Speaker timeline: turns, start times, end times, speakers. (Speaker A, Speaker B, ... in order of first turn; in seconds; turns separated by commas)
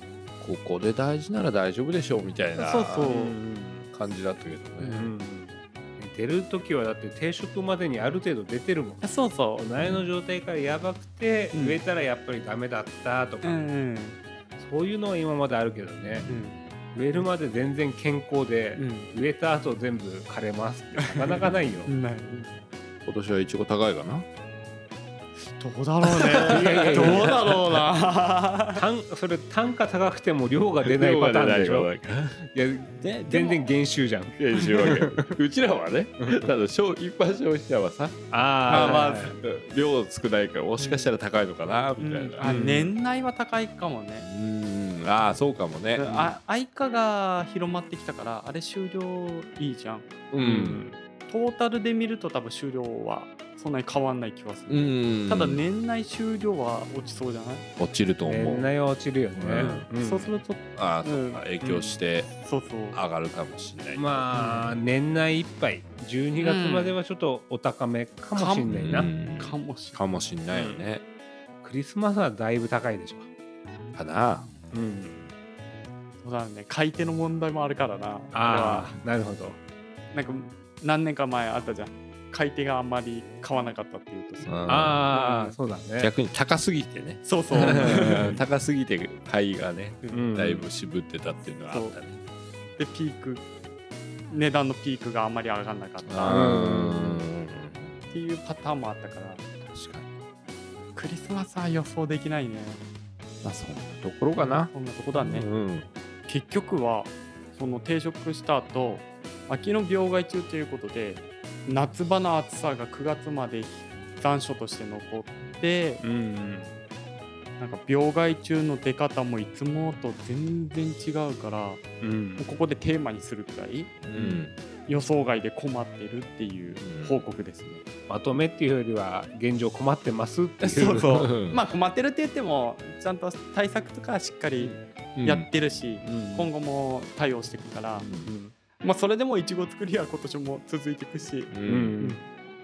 Speaker A: 0.4-3.1, Speaker B: 2.5-3.4, Speaker C: 3.0-3.9, Speaker A: 3.9-5.1, Speaker B: 4.8-5.1, Speaker C: 4.8-13.7, Speaker B: 9.0-9.7, Speaker A: 9.8-10.1, Speaker B: 11.5-11.8, Speaker B: 13.4-14.2, Speaker C: 14.6-16.3, Speaker A: 16.1-16.5, Speaker B: 16.3-17.3, Speaker C: 16.9-21.9, Speaker B: 18.8-19.1, Speaker B: 21.0-22.6, Speaker A: 23.1-24.2, Speaker B: 25.4-28.8, Speaker A: 26.2-27.8, Speaker C: 26.5-27.3, Speaker C: 28.7-35.3, Speaker A: 30.8-32.4, Speaker A: 33.0-33.5, Speaker B: 33.3-33.6, Speaker A: 34.4-42.5, Speaker C: 36.2-36.5, Speaker C: 38.3-39.4, Speaker B: 38.7-39.4, Speaker B: 40.8-41.1, Speaker B: 42.0-44.3, Speaker C: 42.4-42.9, Speaker A: 44.2-46.4, Speaker B: 45.9-50.1, Speaker A: 50.3-50.8, Speaker C: 50.4-51.0, Speaker B: 51.2-57.7, Speaker A: 54.7-55.6, Speaker A: 57.8-58.7, Speaker C: 58.2-60.3, Speaker A: 59.3-59.9, Speaker B: 59.5-61.4, Speaker A: 60.7-62.3, Speaker C: 61.6-62.0, Speaker B: 62.3-63.0, Speaker A: 62.9-64.2, Speaker C: 63.9-69.1, Speaker B: 64.3-64.8, Speaker B: 66.3-67.0, Speaker B: 68.3-70.0, Speaker A: 68.6-71.0, Speaker C: 70.5-70.8, Speaker C: 71.6-73.3, Speaker A: 73.9-74.5, Speaker C: 74.7-75.2, Speaker B: 76.2-79.0, Speaker C: 78.3-79.6, Speaker B: 80.1-85.6, Speaker A: 84.4-85.1, Speaker C: 84.7-86.1, Speaker A: 86.0-92.2, Speaker B: 87.2-88.4, Speaker C: 87.7-88.3, Speaker B: 90.0-90.3, Speaker C: 90.1-90.7, Speaker B: 91.7-92.0, Speaker B: 92.8-93.5, Speaker B: 94.3-96.6, Speaker A: 96.0-98.0, Speaker C: 96.2-97.2, Speaker B: 98.1-99.4, Speaker A: 99.7-100.1, Speaker B: 100.9-102.8, Speaker A: 103.4-105.9, Speaker B: 104.3-105.5, Speaker B: 106.3-116.0, Speaker C: 116.0-116.7, Speaker B: 117.6-121.8, Speaker C: 122.0-122.5, Speaker B: 122.4-124.0, Speaker A: 124.0-124.6, Speaker C: 124.1-124.4, Speaker B: 124.8-127.8, Speaker A: 126.8-127.2, Speaker C: 128.1-131.2, Speaker A: 130.6-131.6, Speaker B: 130.8-138.1, Speaker A: 134.6-135.5, Speaker C: 136.0-136.5, Speaker A: 137.9-138.3, Speaker C: 138.2-138.5, Speaker B: 138.8-142.2, Speaker A: 141.5-142.0, Speaker C: 141.7-142.2